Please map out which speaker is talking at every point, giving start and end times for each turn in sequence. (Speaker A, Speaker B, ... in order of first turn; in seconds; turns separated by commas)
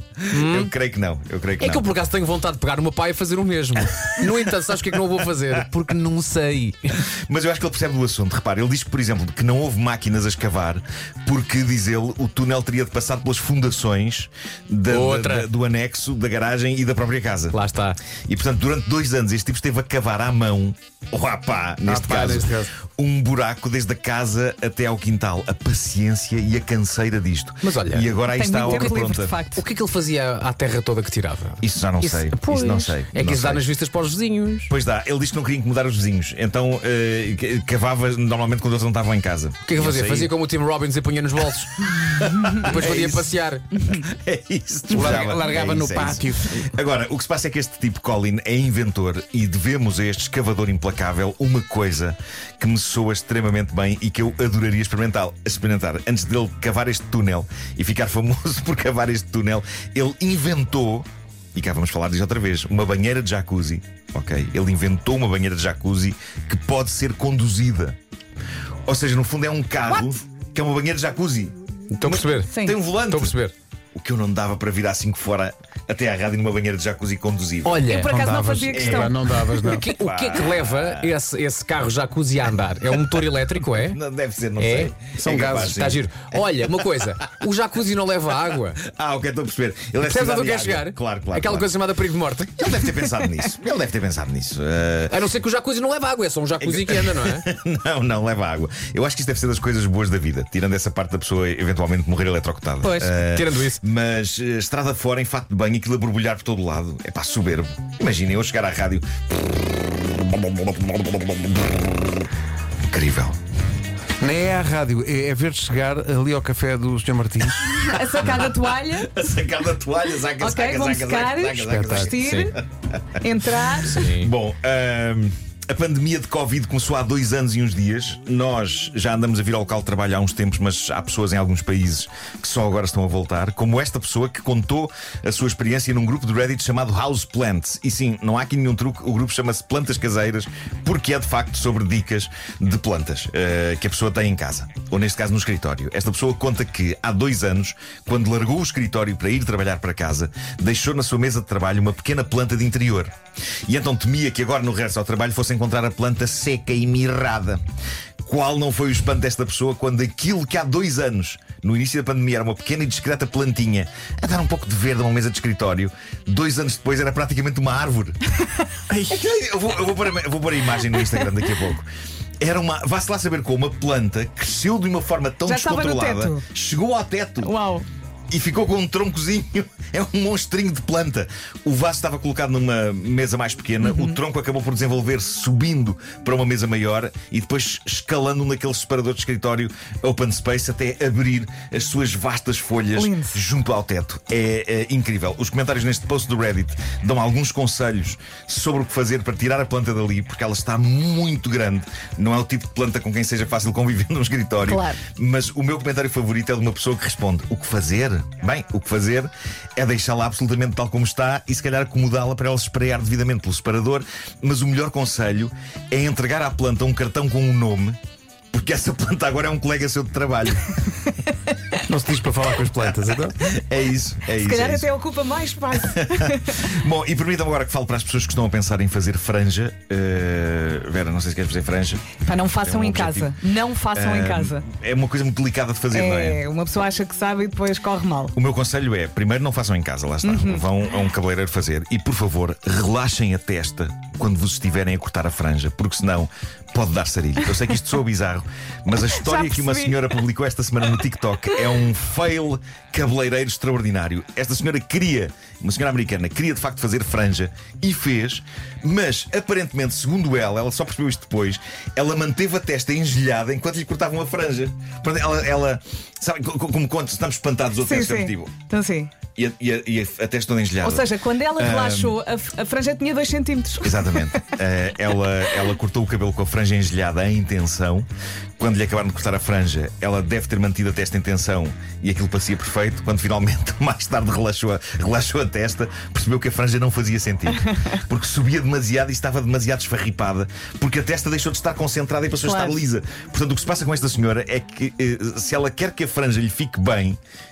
Speaker A: 0.3-0.7, Speaker B: 0.3-1.9, Speaker A: 1.6-7.0, Speaker B: 7.1-17.6, Speaker A: 14.9-15.5, Speaker A: 17.5-18.0, Speaker B: 18.3-29.4, Speaker C: 21.8-22.7, Speaker A: 27.6-34.7, Speaker D: 28.3-29.6, Speaker B: 31.6-33.7, Speaker B: 34.7-40.3, Speaker A: 39.7-43.6, Speaker B: 42.2-68.0, Speaker C: 44.9-46.6, Speaker B: 68.9-73.3, Speaker A: 71.9-73.5, Speaker D: 72.5-72.8, Speaker B: 74.0-77.8, Speaker A: 77.7-78.2, Speaker D: 77.9-79.2, Speaker C: 78.0-79.8, Speaker B: 78.7-81.2, Speaker A: 79.5-84.0, Speaker B: 83.8-87.0, Speaker A: 84.6-88.8, Speaker C: 85.2-85.6, Speaker B: 88.8-91.7, Speaker A: 90.0-92.7, Speaker B: 92.5-95.2, Speaker A: 95.1-97.5, Speaker B: 96.6-112.3, Speaker A: 102.8-103.8, Speaker B: 112.8-113.4, Speaker C: 114.2-117.9, Speaker D: 117.8-119.3, Speaker B: 118.1-122.7, Speaker D: 120.4-122.5, Speaker C: 121.7-122.1, Speaker A: 122.1-122.5, Speaker D: 123.2-124.1, Speaker B: 123.8-153.2, Speaker A: 123.9-124.3, Speaker B: 153.7-157.6, Speaker B: 158.2-168.2, Speaker B: 168.9-171.9, Speaker B: 172.4-177.5, Speaker D: 175.4-176.4, Speaker D: 177.4-177.9, Speaker B: 178.3-218.0, Speaker D: 183.8-184.2, Speaker D: 193.0-193.4, Speaker D: 204.7-205.0, Speaker B: 218.5-220.8, Speaker C: 221.9-223.4, Speaker B: 223.4-224.9, Speaker D: 224.4-226.6, Speaker B: 225.9-233.4, Speaker D: 232.2-234.6, Speaker B: 233.9-236.4, Speaker D: 235.9-238.3, Speaker B: 238.3-268.6, Speaker D: 240.2-240.6, Speaker D: 249.1-250.0, Speaker D: 267.8-269.2, Speaker B: 269.4-272.2, Speaker D: 270.8-274.3, Speaker B: 273.8-297.2, Speaker D: 292.4-292.8